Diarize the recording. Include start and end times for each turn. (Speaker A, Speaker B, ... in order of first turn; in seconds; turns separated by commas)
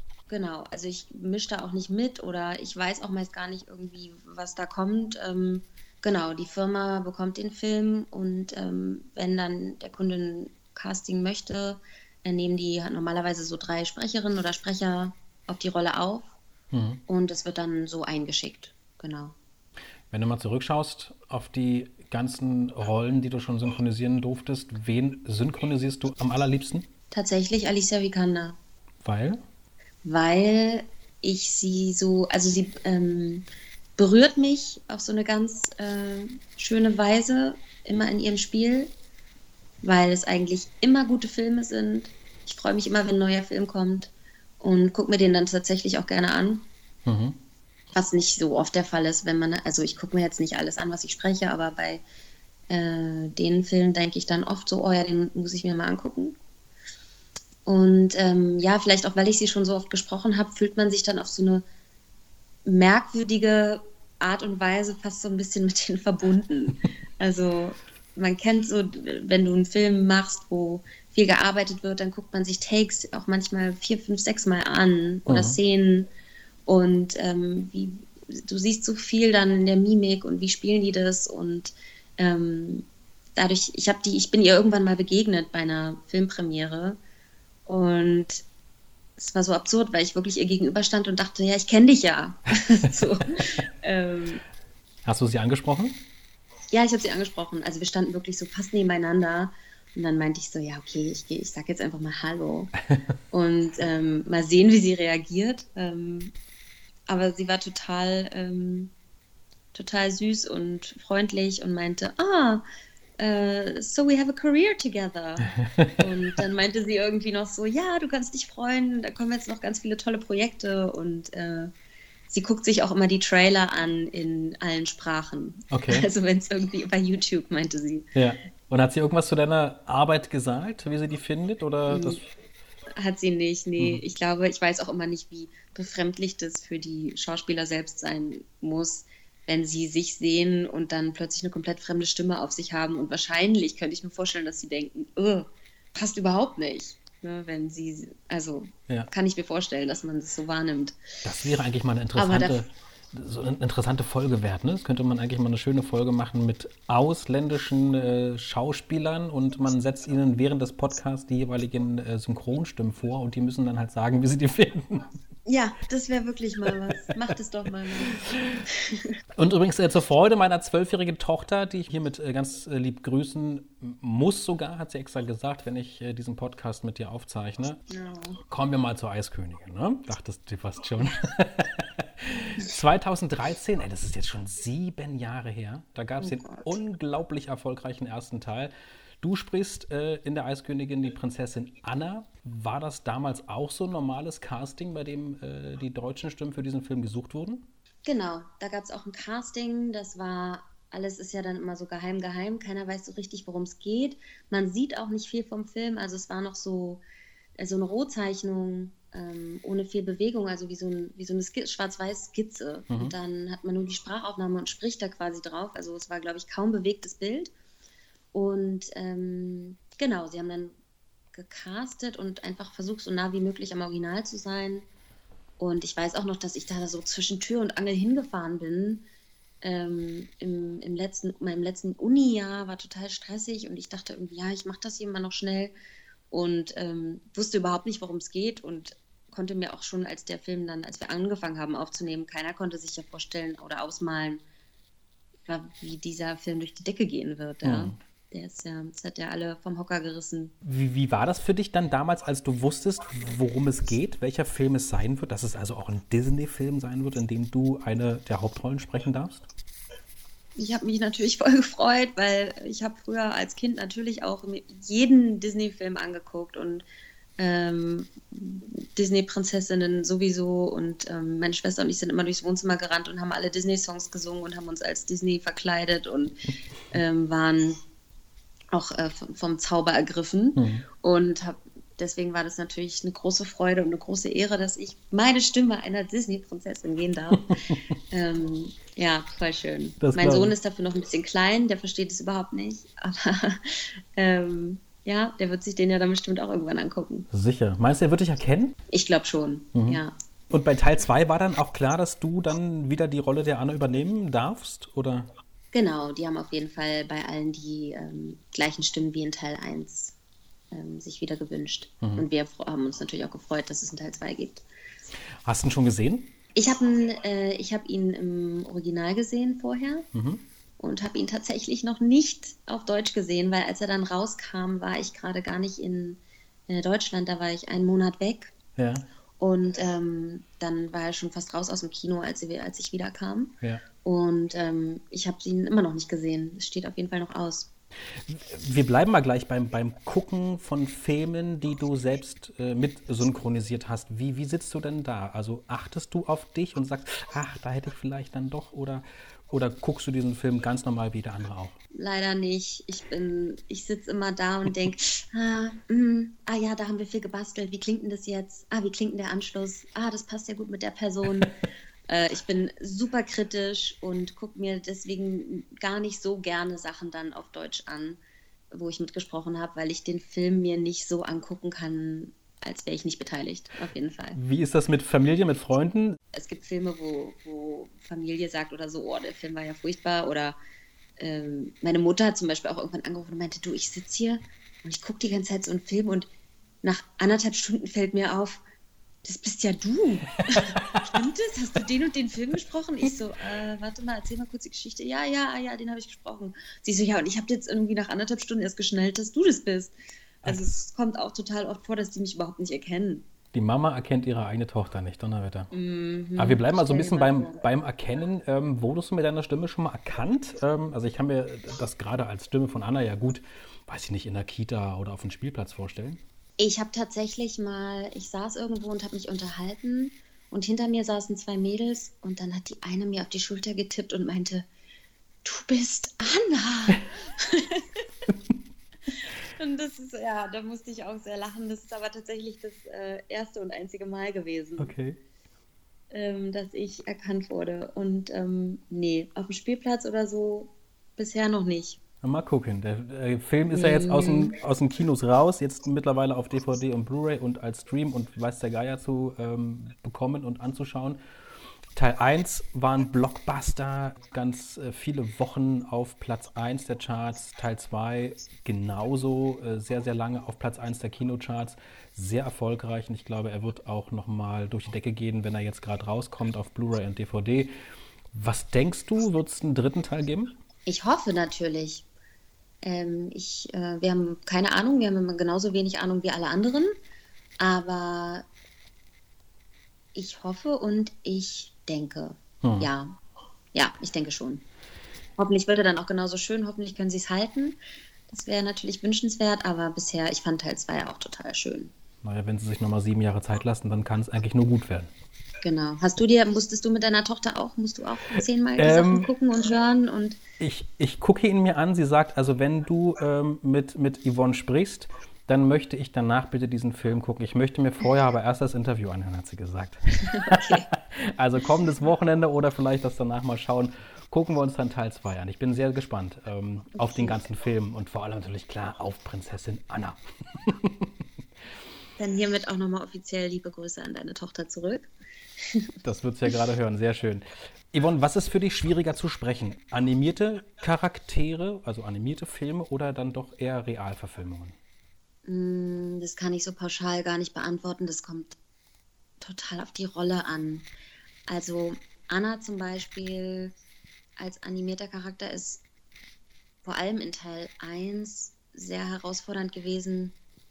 Speaker A: 0.3-16.3, Speaker B: 16.7-17.0, Speaker A: 17.1-19.4, Speaker B: 20.1-26.9, Speaker A: 27.1-28.6, Speaker B: 29.0-29.4, Speaker A: 30.0-33.5, Speaker A: 34.0-38.9, Speaker A: 39.8-46.7, Speaker B: 47.1-47.4, Speaker A: 47.9-52.0, Speaker A: 52.7-56.4, Speaker A: 57.6-61.6, Speaker A: 62.6-76.1, Speaker B: 75.3-75.6, Speaker A: 76.7-87.0, Speaker A: 87.7-88.4, Speaker A: 89.2-94.4, Speaker B: 95.0-96.0, Speaker A: 96.7-102.7, Speaker A: 103.3-106.3, Speaker A: 107.1-108.9, Speaker A: 109.7-112.6, Speaker A: 113.2-121.7, Speaker B: 115.6-116.0, Speaker A: 122.3-128.1, Speaker B: 125.7-126.1, Speaker B: 128.2-132.3, Speaker A: 131.9-132.2, Speaker A: 132.9-151.0, Speaker B: 151.2-165.1, Speaker A: 152.2-152.6, Speaker A: 165.5-169.2, Speaker B: 169.4-177.8, Speaker A: 177.9-178.4, Speaker B: 178.5-197.7, Speaker A: 186.2-186.7, Speaker A: 198.1-207.0, Speaker A: 207.6-217.5, Speaker A: 218.3-220.8, Speaker A: 221.3-224.9, Speaker A: 225.6-229.1, Speaker A: 229.6-235.7, Speaker A: 236.3-244.4, Speaker A: 245.4-250.6, Speaker B: 247.6-248.0, Speaker B: 250.6-259.5, Speaker A: 260.6-266.9, Speaker A: 267.4-277.8, Speaker A: 278.7-297.3, Speaker B: 280.6-280.9, Speaker B: 290.0-290.5, Speaker B: 297.3-298.8, Speaker A: 298.9-300.1, Speaker B: 299.7-305.3, Speaker A: 305.7-310.1, Speaker A: 310.7-314.6, Speaker B: 315.4-316.3, Speaker A: 316.6-320.1, Speaker B: 320.1-320.4, Speaker A: 320.8-328.5, Speaker B: 328.8-329.1, Speaker A: 329.4-337.7, Speaker B: 338.3-351.8, Speaker A: 351.9-361.6, Speaker A: 362.1-368.2, Speaker A: 368.7-374.4, Speaker B: 374.3-376.2, Speaker A: 376.3-380.6, Speaker A: 381.2-386.3, Speaker A: 386.8-388.6, Speaker A: 389.2-403.2, Speaker B: 390.5-391.1, Speaker B: 400.4-400.7, Speaker B: 403.5-405.7, Speaker A: 405.7-407.6, Speaker B: 406.4-416.2, Speaker A: 416.6-424.7, Speaker A: 425.4-428.0, Speaker A: 429.5-434.9, Speaker B: 434.8-435.2, Speaker A: 436.1-442.0, Speaker B: 442.2-451.2, Speaker A: 443.7-444.6, Speaker B: 451.9-467.7, Speaker B: 468.3-470.6, Speaker A: 470.9-472.1, Speaker A: 472.8-476.9, Speaker A: 477.6-478.5, Speaker A: 480.1-483.2, Speaker B: 482.6-482.9, Speaker A: 483.7-484.6, Speaker A: 485.4-491.9, Speaker B: 492.2-495.1, Speaker A: 495.6-500.4, Speaker B: 498.8-499.3, Speaker B: 500.6-521.1, Speaker A: 510.3-510.9, Speaker A: 517.0-517.4, Speaker A: 522.2-525.9, Speaker B: 526.0-534.8, Speaker A: 535.5-538.6, Speaker A: 539.4-540.9, Speaker A: 541.5-543.7, Speaker A: 544.4-545.8, Speaker A: 546.8-550.4